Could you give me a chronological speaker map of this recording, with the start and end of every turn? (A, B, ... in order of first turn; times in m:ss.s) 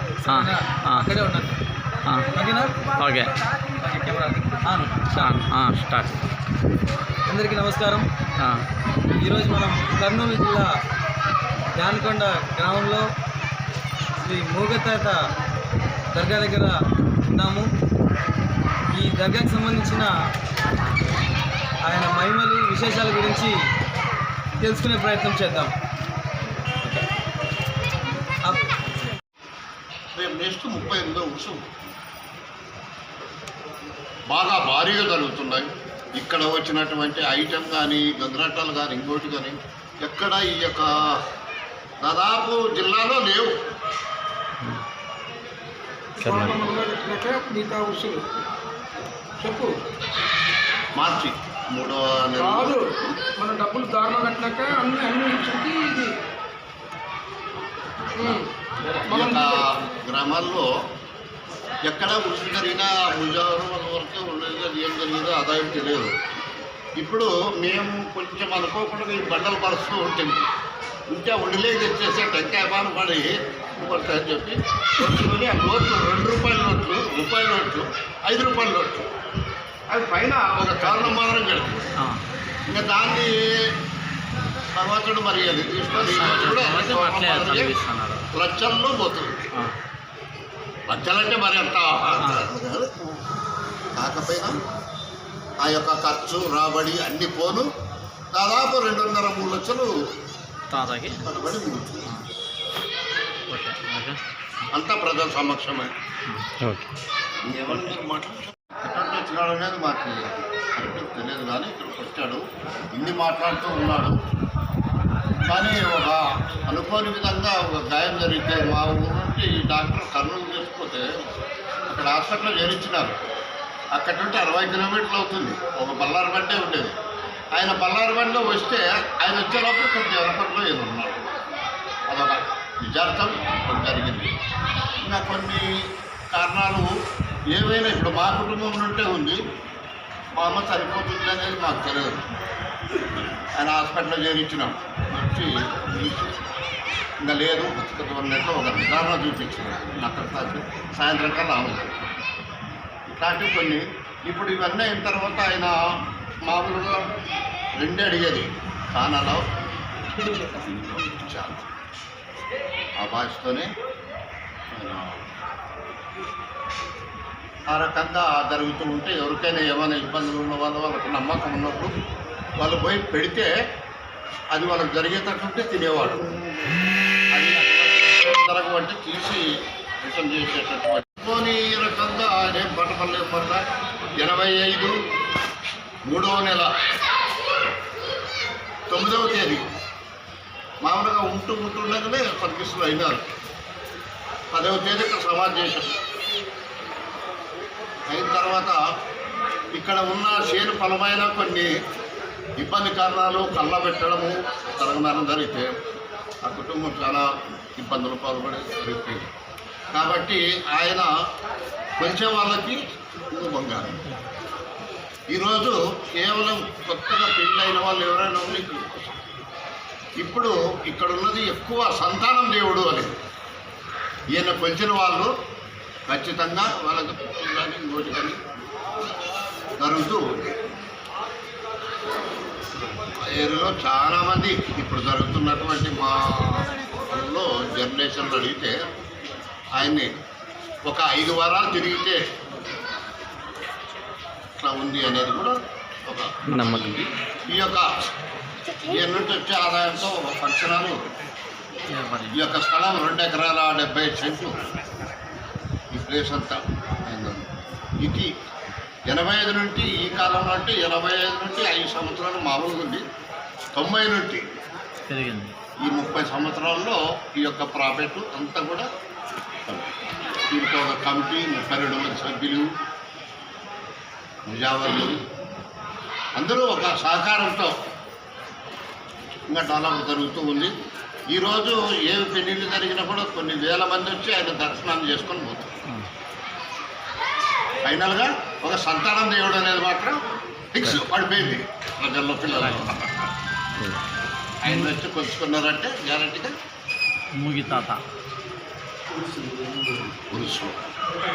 0:00.2-0:01.6 A
0:00.3-0:01.1 B
0:02.3-0:02.8 A
0:03.0-0:03.3 B
0:03.8-0:05.4 A
0:05.1-0:06.2 B
0:07.3-0:08.0 A
0:09.2-0:10.7 A
0:11.8-0:13.0 A
0:14.2-0:15.2 A
0:16.1-0:17.6 A
0:18.9-0:20.1 A
0:21.8-0:23.5 A
0:24.6-0:25.7 A
0:30.1-0:31.6 C
0:34.3-0:40.9 C
0:42.0-0:43.5 C
0:46.2-0:48.2 D
0:46.2-0:46.6 B
0:49.4-0:49.7 D
0:51.0-0:52.7 C
0:52.4-0:52.8 D
0:53.4-0:56.1 D
0:58.2-0:58.5 D
0:59.0-1:00.6 C
0:59.0-0:59.7 D
1:01.9-1:06.1 C
1:07.0-1:10.5 C
1:11.1-1:19.1 C
1:19.9-1:21.9 C
1:22.7-1:23.7 C
1:24.7-1:27.7 C
1:26.0-1:28.3 B
1:28.3-1:29.5 C
1:30.9-1:33.1 C
1:33.9-1:34.6 C
1:35.6-1:37.7 C
1:38.3-1:39.9 C
1:40.7-1:41.2 B
1:41.2-1:42.1 C
1:43.5-1:44.2 B
1:44.7-1:45.9 C
1:46.3-1:46.9 B
1:47.4-1:52.4 C
1:52.9-1:54.2 C
1:55.5-2:01.3 C
2:01.9-2:03.2 C
2:03.9-2:06.9 C
2:07.5-2:11.3 C
2:12.1-2:14.3 C
2:15.0-2:15.7 C
2:16.3-2:16.9 C
2:17.5-2:19.4 C
2:20.3-2:22.2 C
2:23.6-2:26.3 C
2:27.2-2:31.9 C
2:33.1-2:35.7 C
2:36.4-2:37.0 C
2:37.8-2:39.4 C
2:40.2-2:41.7 C
2:43.0-2:43.7 C
2:44.7-2:45.3 C
2:47.7-2:51.9 C
2:52.6-2:53.5 C
2:54.5-2:56.4 C
2:57.3-3:03.6 C
3:04.2-3:04.9 C
3:06.0-3:06.7 C
3:08.9-3:09.7 C
3:10.8-3:13.2 C
3:14.5-3:16.0 C
3:18.1-3:18.8 C
3:19.7-3:21.7 C
3:22.6-3:25.7 C
3:26.4-3:27.2 C
3:27.8-3:29.3 C
3:29.9-3:31.1 C
3:32.0-3:32.8 C
3:33.3-3:34.1 C
3:35.3-3:39.2 C
3:40.2-3:43.2 C
3:44.3-3:45.3 C
3:46.1-3:48.4 C
3:49.8-3:50.5 C
3:53.2-3:58.8 C
3:59.7-4:00.1 C
4:00.8-4:02.2 C
4:04.6-4:07.9 C
4:06.5-4:07.0 B
4:08.8-4:11.0 C
4:11.9-4:12.4 B
4:12.3-4:14.5 C
4:15.9-4:18.3 C
4:19.1-4:23.0 C
4:23.7-4:24.5 C
4:25.1-4:25.5 B
4:25.8-4:28.9 C
4:29.7-4:29.9 C
4:30.5-4:32.7 C
4:34.5-4:35.2 C
4:36.4-4:37.7 C
4:39.5-4:40.7 C
4:41.3-4:45.8 C
4:47.8-4:50.2 C
4:50.7-4:53.3 C
4:52.4-4:52.9 B
4:54.6-4:56.5 C
4:54.6-4:54.9 B
4:57.4-4:58.0 B
5:00.3-5:00.8 C